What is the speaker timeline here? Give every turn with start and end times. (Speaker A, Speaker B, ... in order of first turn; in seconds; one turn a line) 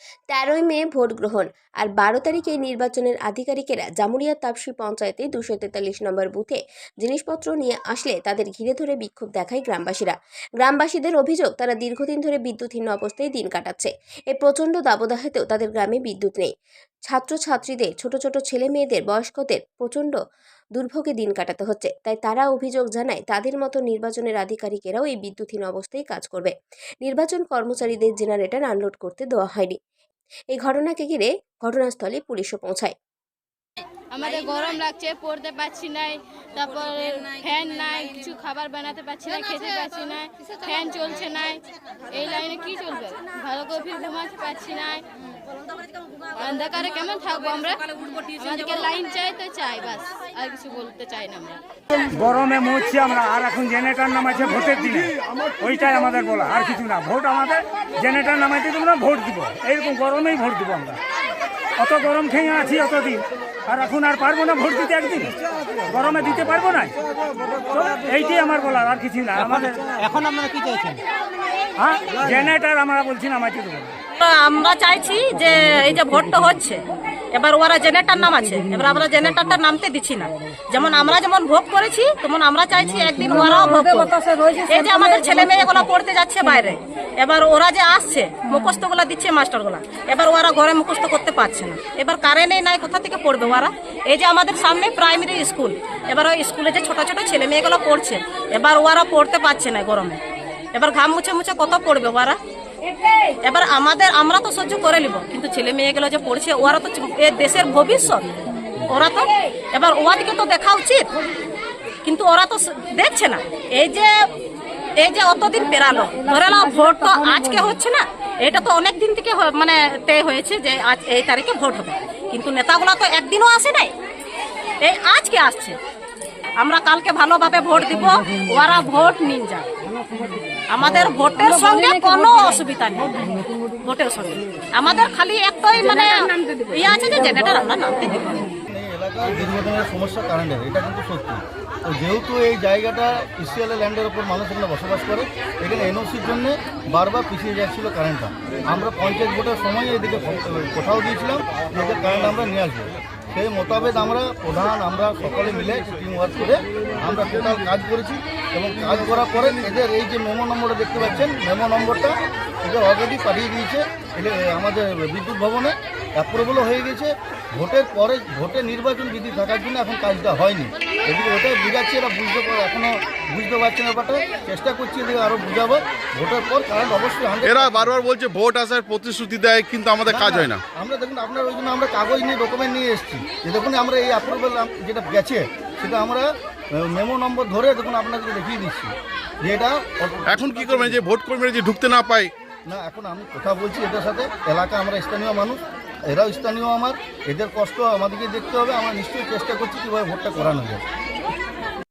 Speaker A: 0.3-16.5
Speaker A: 17.1-20.2
Speaker A: 20.8-29.8
Speaker A: 30.5-33.0
Speaker B: 34.1-45.0
Speaker B: 46.4-51.6
Speaker C: 52.1-61.0
Speaker C: 61.8-67.0
Speaker C: 67.5-70.0
Speaker C: 71.8-74.0
Speaker D: 74.2-76.8
Speaker D: 77.3-100.2
Speaker D: 100.7-102.4
Speaker D: 103.4-108.3
Speaker D: 108.9-111.1
Speaker D: 112.0-114.1
Speaker D: 115.0-123.9
Speaker D: 124.8-125.8
Speaker D: 126.6-129.7
Speaker D: 130.7-133.3
Speaker D: 133.8-138.5
Speaker E: 138.7-178.0
Speaker F: 177.4-180.6
Speaker E: 180.1-190.9
Speaker F: 190.3-192.3
Speaker E: 192.7-200.8